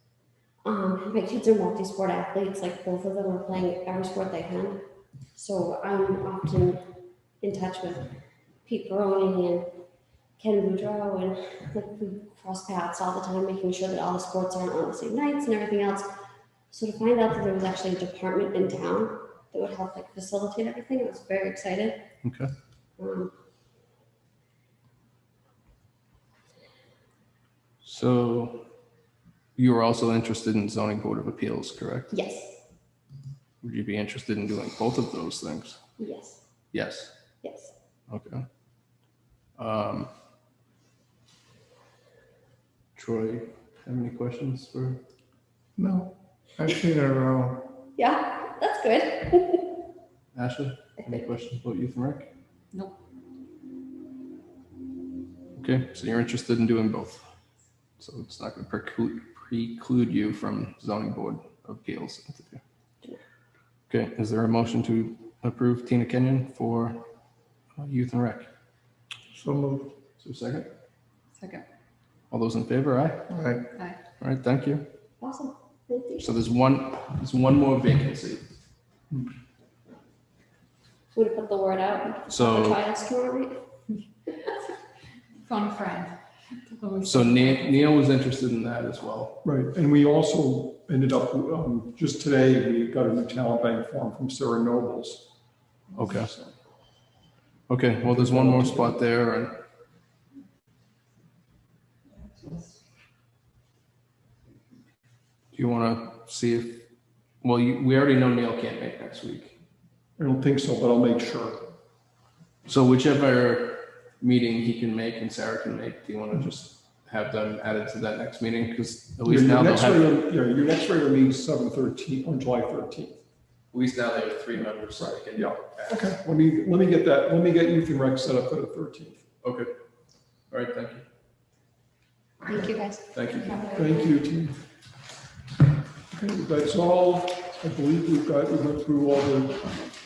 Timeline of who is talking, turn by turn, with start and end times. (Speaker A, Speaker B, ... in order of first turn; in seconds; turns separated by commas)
Speaker A: 0.6-4.8, Speaker A: 5.3-6.8, Speaker A: 7.4-9.7, Speaker A: 10.4-16.1, Speaker A: 16.7-22.0, Speaker B: 22.2-22.5, Speaker A: 23.0-23.3, Speaker B: 27.8-28.6, Speaker B: 29.6-32.1, Speaker A: 32.1-32.6, Speaker B: 33.6-35.8, Speaker A: 36.0-36.4, Speaker B: 36.7-37.1, Speaker A: 37.4-37.7, Speaker B: 38.1-38.4, Speaker B: 39.6-40.1, Speaker B: 42.9-45.0, Speaker C: 45.8-47.7, Speaker A: 48.0-49.7, Speaker B: 50.3-52.3, Speaker B: 55.5-57.2, Speaker B: 58.0-62.6, Speaker B: 63.9-67.0, Speaker B: 67.8-68.5, Speaker C: 69.3-69.9, Speaker B: 70.2-70.7, Speaker D: 71.4-71.6, Speaker B: 72.3-73.3, Speaker C: 73.3-73.7, Speaker B: 74.2-74.8, Speaker A: 75.2-76.3, Speaker B: 76.2-78.5, Speaker A: 81.1-83.6, Speaker B: 82.3-82.8, Speaker D: 85.4-86.2, Speaker D: 86.7-87.7, Speaker B: 87.0-89.4, Speaker E: 89.4-95.3, Speaker B: 95.9-96.4, Speaker B: 97.7-99.6, Speaker E: 98.1-99.0, Speaker B: 105.5-106.8, Speaker B: 107.4-109.6, Speaker E: 110.2-111.6, Speaker B: 112.7-120.1, Speaker E: 119.2-123.2, Speaker B: 123.7-126.0, Speaker E: 125.1-129.2, Speaker B: 129.4-129.7, Speaker B: 130.5-131.0, Speaker A: 132.4-133.0, Speaker B: 133.1-133.7, Speaker D: 133.5-133.9, Speaker E: 133.6-134.6, Speaker E: 136.1-139.7